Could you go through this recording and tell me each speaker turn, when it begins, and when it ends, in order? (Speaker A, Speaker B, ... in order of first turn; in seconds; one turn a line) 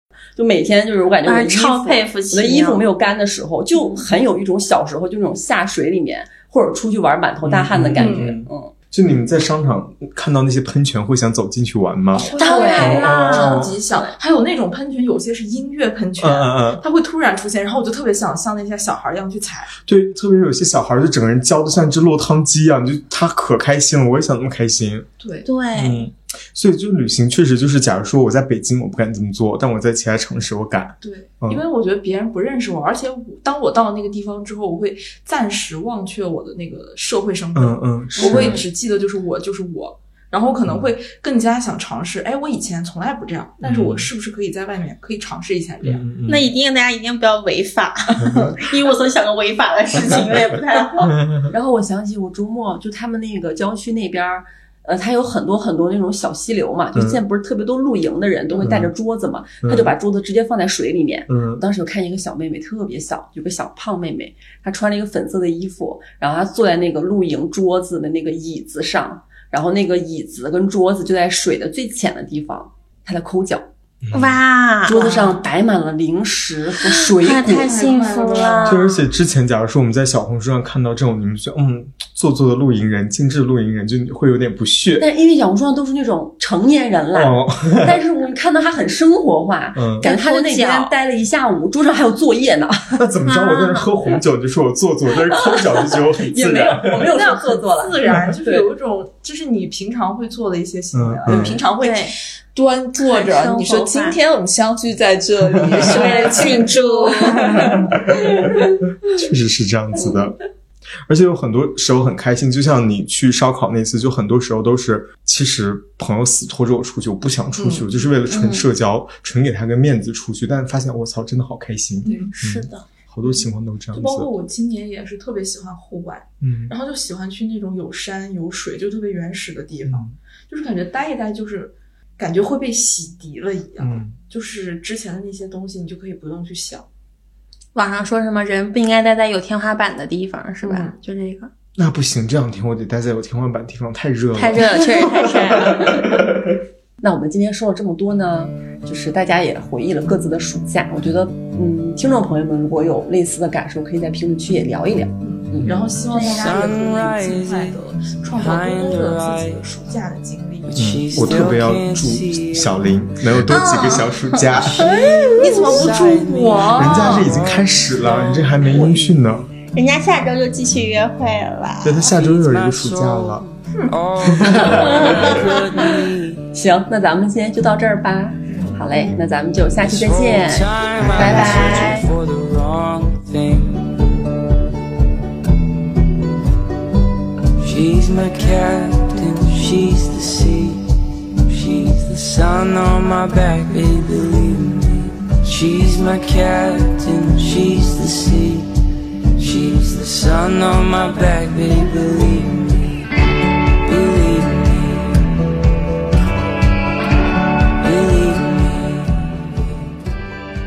Speaker A: 0.4-8.7
Speaker B: 1.2-2.8
Speaker C: 7.4-13.8
Speaker D: 8.0-8.4
Speaker D: 12.1-19.7
Speaker A: 12.2-13.2
Speaker B: 12.4-13.6
Speaker C: 16.2-16.8
Speaker C: 19.9-25.1
Speaker D: 25.2-25.5
Speaker B: 25.4-26.1
Speaker C: 25.7-31.6
Speaker D: 31.0-46.0
Speaker C: 37.5-38.6
Speaker C: 43.6-44.1
Speaker C: 45.8-46.5
Speaker B: 46.3-51.2
Speaker C: 48.2-48.6
Speaker C: 51.0-51.5
Speaker A: 51.5-73.7
Speaker C: 56.9-57.2
Speaker C: 58.6-58.9
Speaker C: 59.6-60.0
Speaker C: 61.3-61.6
Speaker C: 74.0-74.4
Speaker B: 74.1-75.1
Speaker A: 74.8-77.7
Speaker D: 74.9-75.4
Speaker B: 76.9-78.8
Speaker D: 77.4-79.0
Speaker C: 78.6-85.1
Speaker A: 85.0-93.0
Speaker C: 87.1-88.0
Speaker C: 89.8-90.1
Speaker B: 90.0-90.9
Speaker C: 93.0-97.1
Speaker B: 93.3-93.9
Speaker A: 95.5-98.7
Speaker D: 96.8-108.6
Speaker C: 100.9-101.6
Speaker B: 101.8-102.2
Speaker B: 103.0-104.2
Speaker B: 105.8-108.0
Speaker C: 109.0-110.4
Speaker C: 111.1-124.3
Speaker D: 117.6-117.9
Speaker B: 118.3-118.7
Speaker D: 122.0-122.3
Speaker B: 122.1-122.8
Speaker D: 123.9-136.9
Speaker C: 126.4-126.7
Speaker C: 129.9-130.1
Speaker C: 133.8-134.2
Speaker B: 137.8-141.5
Speaker D: 140.6-140.9
Speaker C: 141.8-146.4
Speaker B: 144.4-146.1
Speaker A: 147.0-155.7
Speaker D: 155.2-160.8
Speaker B: 156.1-156.5
Speaker E: 156.2-157.7
Speaker E: 158.3-159.6
Speaker E: 160.7-162.9
Speaker C: 160.8-165.0
Speaker B: 163.4-165.9
Speaker E: 164.7-169.2
Speaker D: 165.3-167.3
Speaker C: 166.8-169.5
Speaker B: 169.7-172.0
Speaker C: 171.8-173.4
Speaker E: 172.0-176.5
Speaker C: 174.3-175.2
Speaker B: 174.8-175.6
Speaker A: 176.5-181.9
Speaker E: 179.8-184.0
Speaker C: 181.0-181.9
Speaker B: 181.1-182.1
Speaker E: 187.6-190.8
Speaker E: 191.4-198.7
Speaker E: 199.4-203.1
Speaker E: 203.8-205.3
Speaker E: 207.8-209.6